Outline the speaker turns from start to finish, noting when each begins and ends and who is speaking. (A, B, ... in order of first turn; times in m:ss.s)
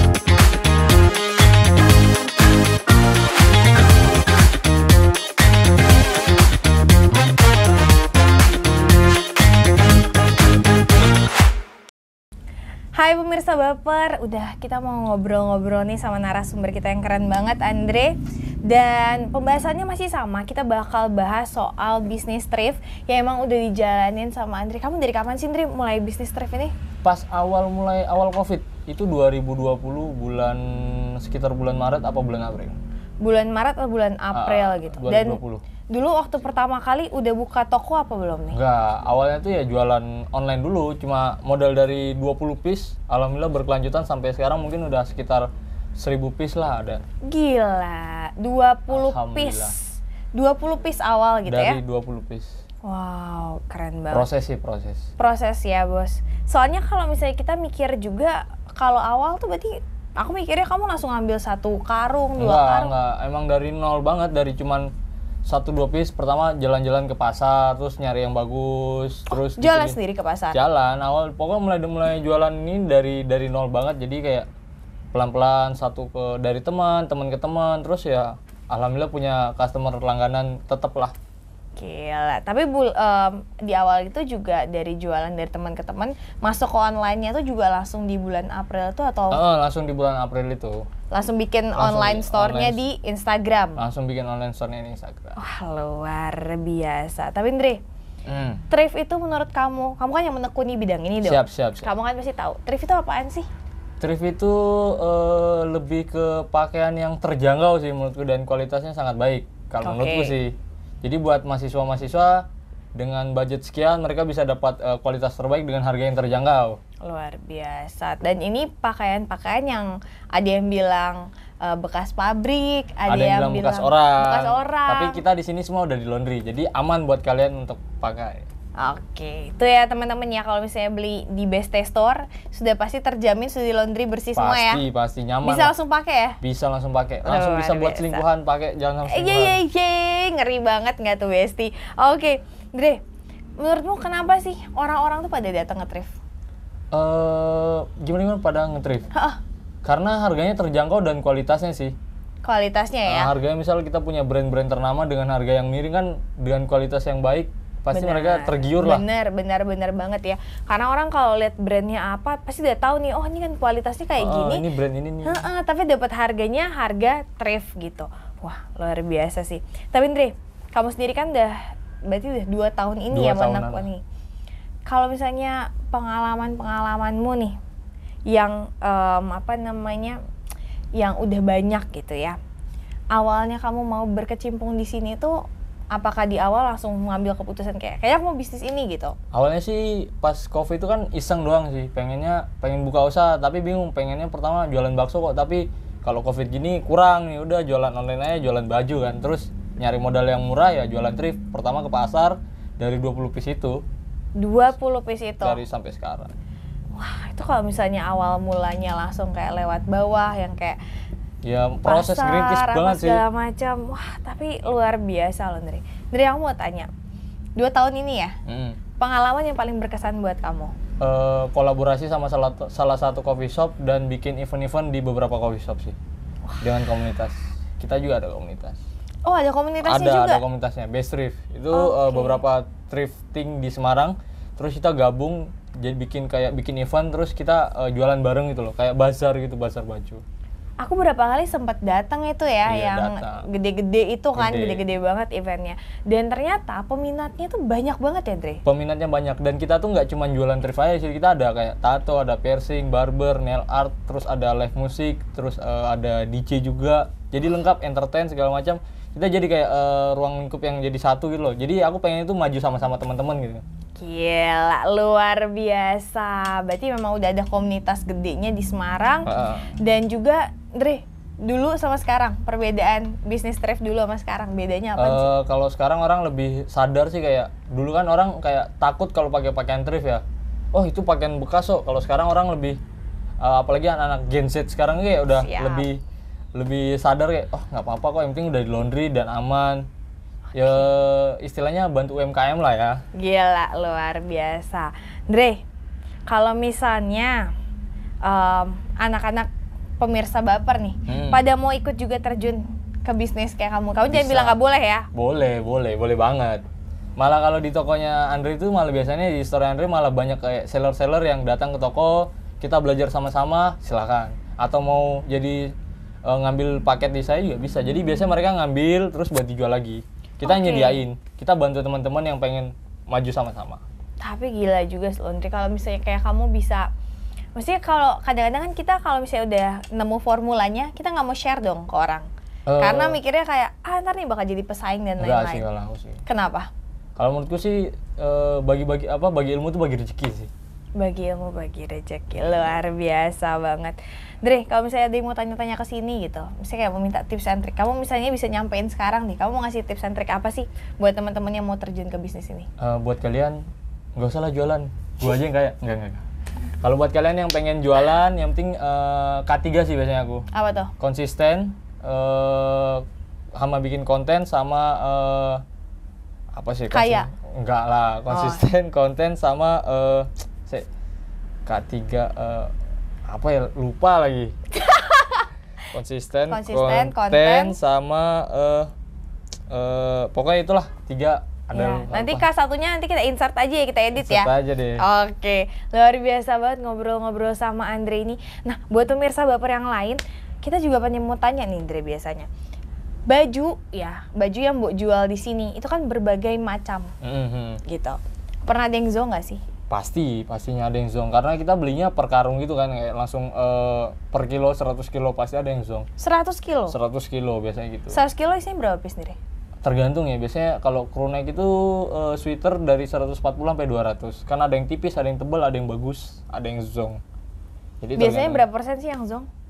0:13.0-0:26.7 A
0:27.0-0:32.8 B
0:33.2-0:38.6 A
0:34.3-0:35.6 B
0:38.5-0:47.0 B
0:47.3-0:51.8 A
0:48.9-0:49.8 B
0:51.5-0:52.6 B
0:52.8-0:54.3 A
0:54.1-0:55.1 B
0:55.2-1:02.9 A
1:02.4-1:04.9 B
1:05.4-1:10.0 B
1:09.3-1:10.6 A
1:10.5-1:14.5 B
1:15.1-1:21.1 B
1:21.8-1:29.4 A
1:29.3-1:30.9 B
1:31.1-1:33.8 A
1:31.8-1:32.8 B
1:33.8-1:35.4 B
1:35.4-1:37.8 A
1:38.3-1:38.6 B
1:38.7-1:43.5 A
1:41.2-1:41.9 B
1:44.0-1:56.8 B
1:49.8-1:50.4 A
1:57.0-2:05.2 A
2:03.1-2:08.5 B
2:08.8-2:14.8 A
2:14.4-2:15.7 B
2:15.4-2:16.4 A
2:16.4-2:19.6 B
2:17.2-2:18.2 A
2:19.1-2:23.0 A
2:23.6-2:26.2 A
2:26.9-2:29.1 B
2:29.1-2:29.4 A
2:29.8-2:32.0 B
2:32.4-2:33.3 A
2:33.1-2:39.0 B
2:37.9-2:44.6 A
2:44.2-2:45.4 B
2:45.2-2:51.6 A
2:52.1-2:54.0 A
2:53.1-2:53.9 B
2:54.9-2:57.6 A
2:58.3-3:00.2 A
3:01.0-3:02.4 A
3:03.1-3:05.4 A
3:05.9-3:09.2 A
3:09.3-3:23.8 B
3:24.4-3:25.6 A
3:25.4-3:26.3 B
3:26.9-3:30.8 A
3:31.4-3:33.2 B
3:31.8-3:36.9 A
3:37.6-3:38.4 A
3:38.5-3:38.8 B
3:39.0-3:40.7 A
3:41.0-3:46.0 B
3:46.6-3:48.8 B
3:49.2-3:50.4 A
3:49.8-4:00.2 B
3:51.7-3:52.4 A
4:00.8-4:08.6 A
4:02.6-4:03.4 B
4:04.4-4:04.8 B
4:08.6-4:23.6 B
4:24.0-4:35.3 A
4:29.3-4:29.8 B
4:35.0-4:42.8 B
4:43.4-4:46.0 B
4:45.4-4:45.9 A
4:46.6-4:49.9 B
4:50.5-4:53.0 B
4:50.6-4:50.8 A
4:53.2-4:55.6 A
4:56.3-4:57.5 A
4:58.2-4:59.5 A
5:00.0-5:05.1 A
5:01.1-5:01.4 B
5:04.1-5:04.6 B
5:05.1-5:06.6 B
5:07.2-5:23.8 B
5:20.4-5:21.0 A
5:24.2-5:26.9 A
5:27.6-5:32.3 A
5:32.7-5:33.2 B
5:32.8-5:35.6 A
5:35.2-5:36.2 B
5:36.3-5:36.7 A
5:37.2-5:40.5 B
5:41.0-5:52.7 A
5:52.8-5:56.2 B
5:56.8-6:00.5 B
6:00.5-6:00.9 A
6:01.0-6:03.0 B
6:03.6-6:05.6 B
6:06.5-6:10.9 B
6:06.9-6:07.3 A
6:08.3-6:08.6 A
6:11.7-6:12.7 B
6:13.3-6:14.6 B
6:14.8-6:15.5 A
6:15.9-6:18.9 B
6:16.5-6:17.8 A
6:19.7-6:22.5 B
6:21.7-6:32.5 A
6:24.2-6:25.0 B
6:33.3-6:37.1 A
6:37.2-6:37.8 B
6:37.8-6:39.6 A
6:39.9-6:46.1 B
6:46.2-6:47.0 A
6:46.9-6:48.2 B
6:48.1-6:49.4 A
6:49.8-6:57.2 B
6:58.0-6:58.6 B
6:58.2-6:59.5 A